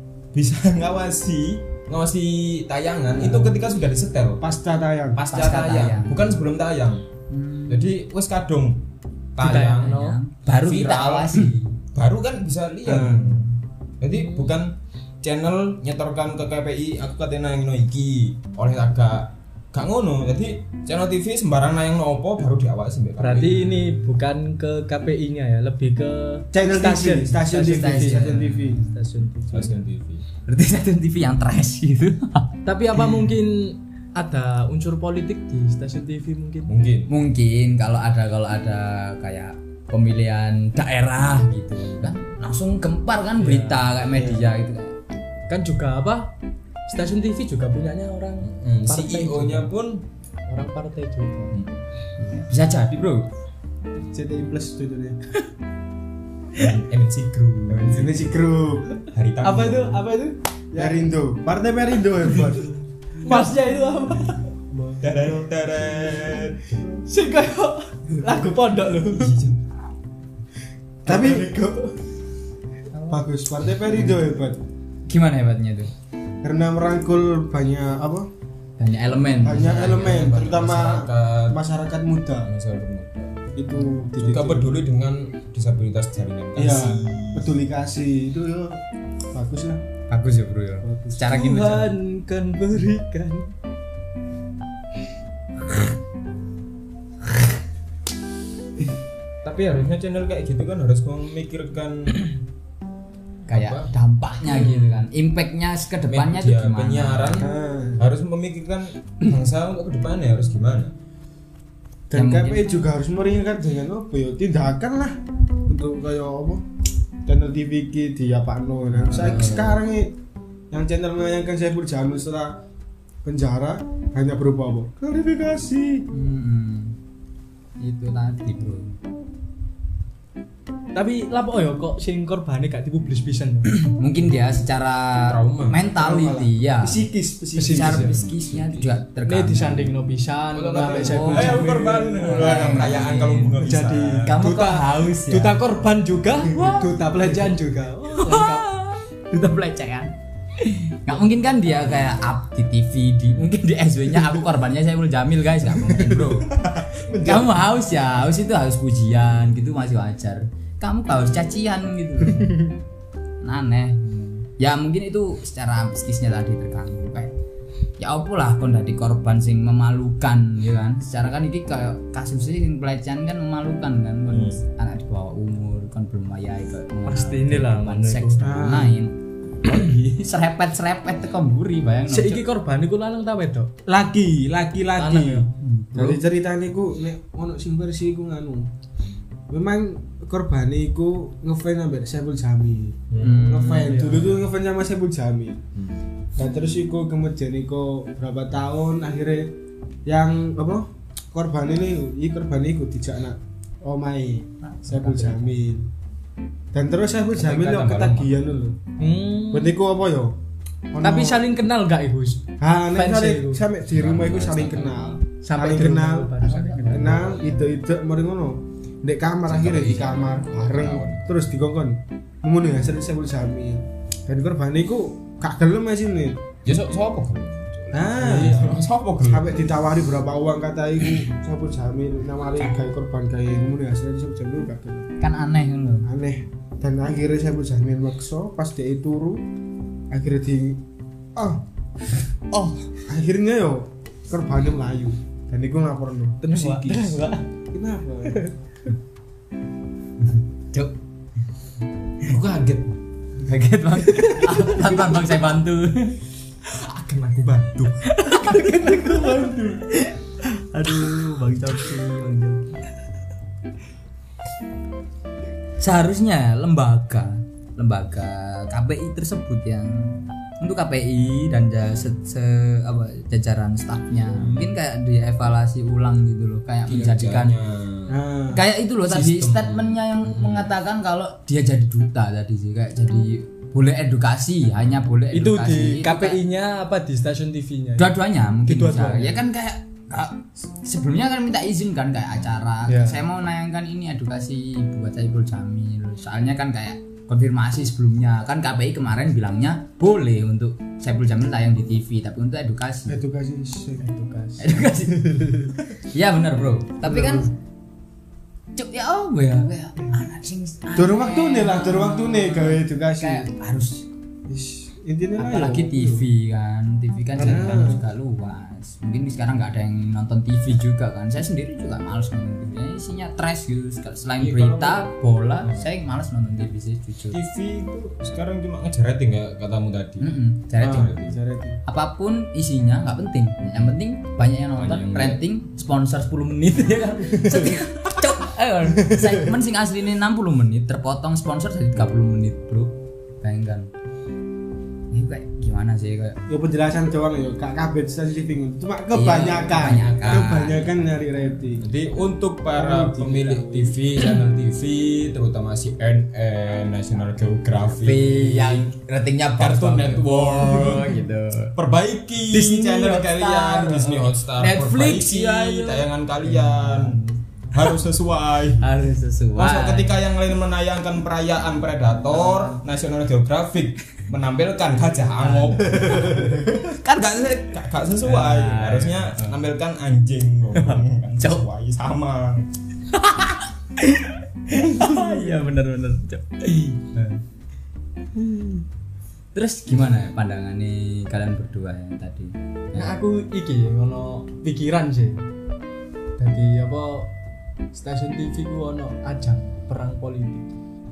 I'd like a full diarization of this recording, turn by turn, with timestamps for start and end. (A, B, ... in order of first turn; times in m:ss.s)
0:00.3-0:04.4 A
0:03.2-0:03.5 B
0:04.4-0:05.2 B
0:05.1-0:07.0 A
0:05.3-0:06.4 C
0:07.3-0:07.9 C
0:07.7-0:08.8 A
0:09.3-0:10.0 A
0:09.4-0:10.2 D
0:09.8-0:11.8 C
0:10.6-0:23.7 A
0:12.8-0:13.4 B
0:14.2-0:14.5 D
0:23.2-0:29.9 D
0:26.5-0:28.9 B
0:27.6-0:28.8 C
0:29.5-0:30.2 A
0:30.4-0:32.5 C
0:32.6-0:36.8 D
0:36.7-0:37.1 A
0:37.1-0:45.0 C
0:43.4-0:43.9 D
0:44.1-0:44.4 B
0:45.5-0:46.3 D
0:46.9-0:49.7 D
0:48.4-0:50.0 A
0:50.5-0:51.6 D
0:51.5-0:51.8 A
0:52.2-0:53.3 C
0:54.0-0:55.2 B
0:56.5-0:58.4 A
0:57.7-0:58.9 B
0:59.1-1:00.0 A
0:59.4-1:01.1 D
1:00.7-1:02.7 B
1:03.2-1:06.1 D
1:05.0-1:06.8 A
1:07.0-1:09.4 D
1:09.1-1:09.6 A
1:11.0-1:11.8 D
1:11.0-1:11.8 B
1:12.9-1:13.2 C
1:13.1-1:14.6 B
1:15.1-1:15.9 C
1:16.4-1:18.3 B
1:18.8-1:20.3 C
1:19.4-1:22.5 B
1:19.5-1:21.6 A
1:22.4-1:23.5 A
1:23.6-1:24.8 B
1:24.2-1:27.5 A
1:26.6-1:28.8 B
1:29.3-1:29.8 B
1:30.1-1:32.0 C
1:30.8-1:31.2 B
1:31.2-1:33.5 D
1:39.4-1:42.3 A
1:43.5-1:43.9 A
1:43.5-1:47.5 C
1:44.5-1:45.0 A
1:46.1-1:50.9 A
1:47.4-1:48.0 B
1:52.1-1:56.6 B
1:52.1-1:52.7 C
1:57.2-2:00.2 B
1:59.0-1:59.7 C
1:59.1-1:59.7 A
2:00.7-2:02.6 B
2:03.2-2:06.1 B
2:06.1-2:07.0 C
2:07.8-2:09.0 C
2:10.9-2:13.8 D
2:13.8-2:17.0 C
2:15.2-2:15.8 A
2:16.0-2:18.2 B
2:17.6-2:18.1 D
2:17.7-2:19.9 C
2:17.9-2:18.9 A
2:19.2-2:28.7 D
2:20.5-2:24.4 A
2:20.9-2:23.6 C
2:24.2-2:25.6 C
2:26.5-2:26.9 C
2:28.2-2:42.6 C
2:35.9-2:36.4 B
2:36.9-2:37.5 B
2:43.4-2:47.3 C
2:48.0-2:59.1 C
2:54.3-2:54.6 A
2:57.0-2:58.4 D
2:58.4-2:59.0 B
2:59.6-3:02.4 C
3:02.1-3:03.7 D
3:03.9-3:08.7 B
3:05.0-3:05.5 D
3:05.6-3:06.2 C
3:09.5-3:15.6 B
3:13.1-3:13.7 A
3:13.2-3:14.0 C
3:13.8-3:14.4 D
3:15.7-3:16.1 A
3:16.4-3:25.9 B
3:24.6-3:25.6 C
3:26.7-3:28.9 B
3:27.3-3:28.3 A
3:29.0-3:29.8 D
3:29.5-3:30.4 B
3:30.9-3:31.4 B
3:31.0-3:33.6 D
3:32.6-3:46.4 B
3:33.8-3:35.2 A
3:35.4-3:37.5 D
3:36.4-3:37.3 C
3:39.5-3:41.3 A
3:46.6-3:49.7 A
3:47.9-3:55.1 B
3:55.2-3:56.1 C
3:56.0-3:59.4 B
4:00.1-4:00.8 B
4:01.3-4:01.6 B
4:02.5-4:02.8 C
4:03.0-4:08.5 B
4:06.4-4:07.5 D
4:08.2-4:08.5 D
4:10.2-4:10.9 C
4:12.2-4:13.0 A
4:13.4-4:16.2 C
4:14.1-4:14.6 D
4:16.7-4:18.0 A
4:18.1-4:22.8 C
4:18.2-4:19.8 D
4:25.8-4:37.6 C
4:34.3-4:34.7 A
4:36.9-4:38.2 A
4:38.1-4:38.6 B
4:38.5-4:46.4 C
4:39.1-4:40.7 A
4:45.3-4:49.4 D
4:48.0-5:03.2 C
4:52.9-4:53.2 D
5:03.1-5:04.1 B
5:04.0-5:05.4 D
5:04.6-5:07.5 C
5:07.0-5:07.5 B
5:08.7-5:14.0 C
5:10.9-5:13.5 B
5:14.5-5:16.2 B
5:15.4-5:27.4 C
5:17.4-5:18.0 B
5:17.4-5:17.9 A
5:24.4-5:25.1 A
5:25.6-5:25.9 A
5:27.3-5:31.4 A
5:30.2-5:31.2 C
5:30.8-5:31.8 B
5:31.8-5:43.9 C
5:34.8-5:35.4 A
5:45.1-5:46.4 C
5:46.5-5:51.9 B
5:49.1-5:50.9 C
5:49.8-5:50.5 A
5:51.8-5:58.9 A
5:52.7-5:54.0 B
5:58.0-6:01.7 C
5:59.6-6:07.2 A
6:02.5-6:07.8 C
6:07.7-6:08.9 A
6:08.8-6:10.2 C
6:09.6-6:22.7 A
6:12.3-6:12.8 C
6:15.4-6:17.4 C
6:18.2-6:19.6 C
6:20.7-6:21.6 C
6:23.1-6:27.4 C
6:24.9-6:25.5 D
6:28.4-6:28.8 D
6:29.5-6:33.1 C
6:32.9-6:35.4 D
6:36.4-6:37.3 D
6:37.9-6:40.8 D